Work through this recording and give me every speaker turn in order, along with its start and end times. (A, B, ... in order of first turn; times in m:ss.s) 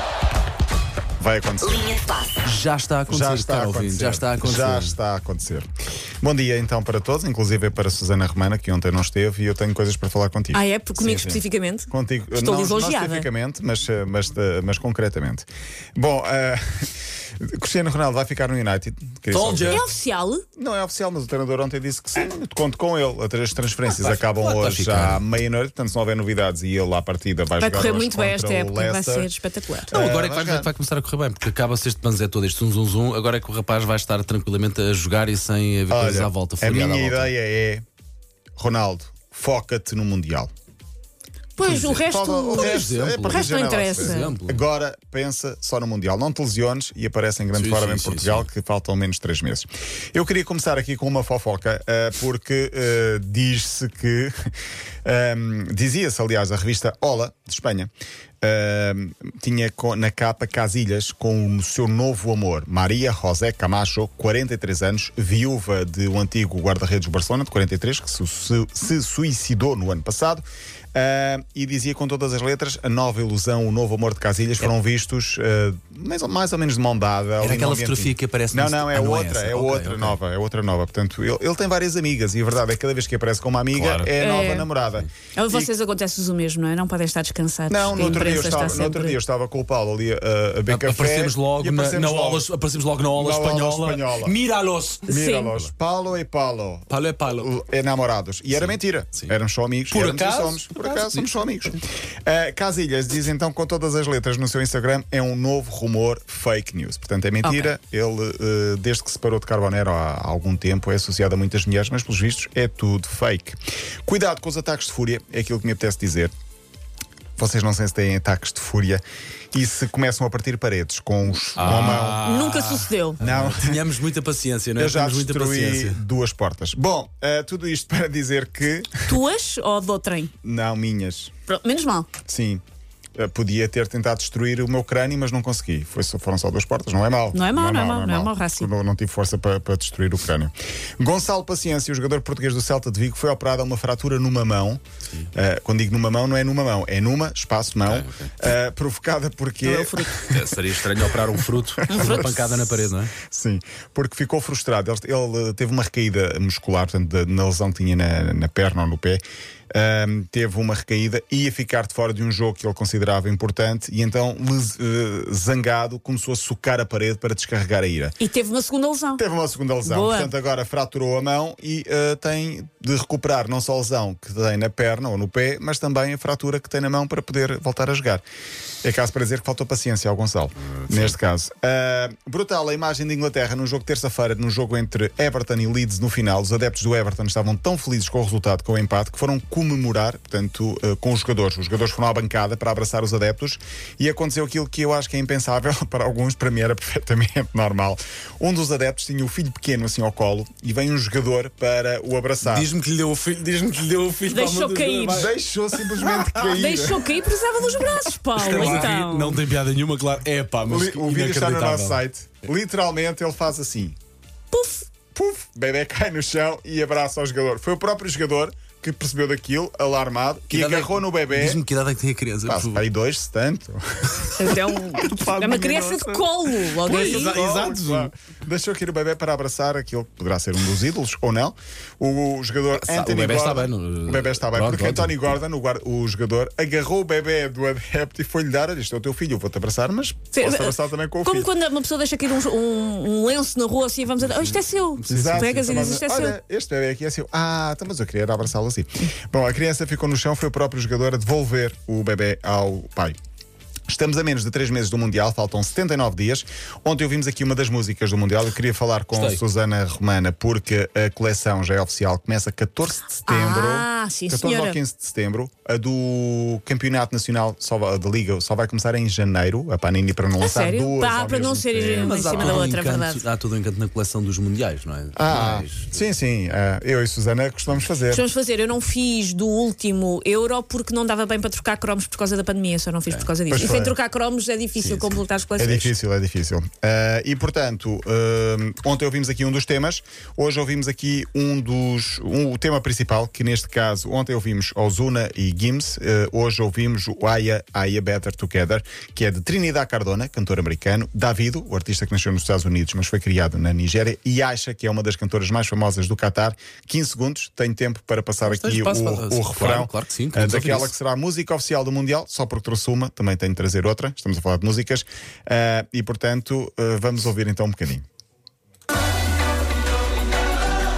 0:01.2-0:02.1 A
0:02.4-0:05.0 B
0:03.1-0:05.7 A
0:06.2-0:19.9 A
0:10.5-0:13.3 C
0:19.3-0:19.8 B
0:19.7-0:20.4 C
0:20.6-0:29.3 A
0:23.9-0:25.2 B
0:27.6-0:29.9 C
0:29.9-0:30.7 A
0:29.9-0:37.3 B
0:35.9-0:37.8 A
0:38.6-0:40.5 A
0:41.6-0:44.3 C
0:41.6-0:44.6 B
0:41.9-0:57.9 A
0:47.6-0:48.5 B
0:58.4-1:25.7 A
1:17.4-1:20.2 B
1:23.7-1:24.1 B
1:24.2-1:24.7 C
1:25.4-1:29.2 C
1:27.7-1:32.5 A
1:27.9-1:28.8 B
1:30.7-1:35.7 B
1:33.1-1:34.4 A
1:35.1-1:56.3 A
1:35.1-1:35.5 C
1:36.9-1:37.5 B
1:38.5-1:39.3 B
1:39.9-1:41.3 B
1:47.4-1:47.7 C
1:57.4-1:59.0 A
1:59.5-2:02.3 A
2:01.6-2:06.0 B
2:02.2-2:03.2 C
2:03.2-2:03.9 A
2:04.8-2:09.2 A
2:09.1-2:10.3 C
2:10.4-2:11.3 A
2:11.5-2:12.1 C
2:12.2-2:12.6 A
2:13.2-2:24.8 A
2:17.3-2:18.7 C
2:25.3-2:30.5 A
2:27.8-2:28.3 B
2:29.6-2:30.2 C
2:30.1-2:33.1 B
2:31.3-2:32.5 A
2:31.9-2:32.3 C
2:33.2-2:39.2 A
2:39.7-2:48.2 A
2:48.2-2:49.2 C
2:49.2-2:58.2 A
2:49.8-2:50.3 C
2:58.8-3:22.7 A
3:00.8-3:01.2 B
3:22.4-3:26.3 B
3:24.3-3:25.3 C
3:25.1-3:27.2 A
3:26.4-3:29.4 C
3:28.4-3:32.0 B
3:28.5-3:28.9 A
3:30.7-3:34.0 A
3:34.5-3:34.9 C
3:35.1-3:41.6 A
3:40.5-3:42.8 B
3:42.4-4:01.5 A
3:44.4-3:47.4 C
3:46.8-3:48.1 B
3:52.7-3:55.4 B
4:00.3-4:06.4 C
4:04.2-4:06.0 B
4:05.1-4:13.2 A
4:13.9-4:32.7 A
4:19.1-4:19.4 B
4:23.3-4:24.8 C
4:30.4-4:33.2 C
4:32.0-4:36.0 B
4:35.2-4:38.2 A
4:38.1-4:45.9 C
4:43.5-4:44.0 A
4:44.8-4:45.2 B
4:45.6-5:18.0 A
5:08.4-5:10.9 B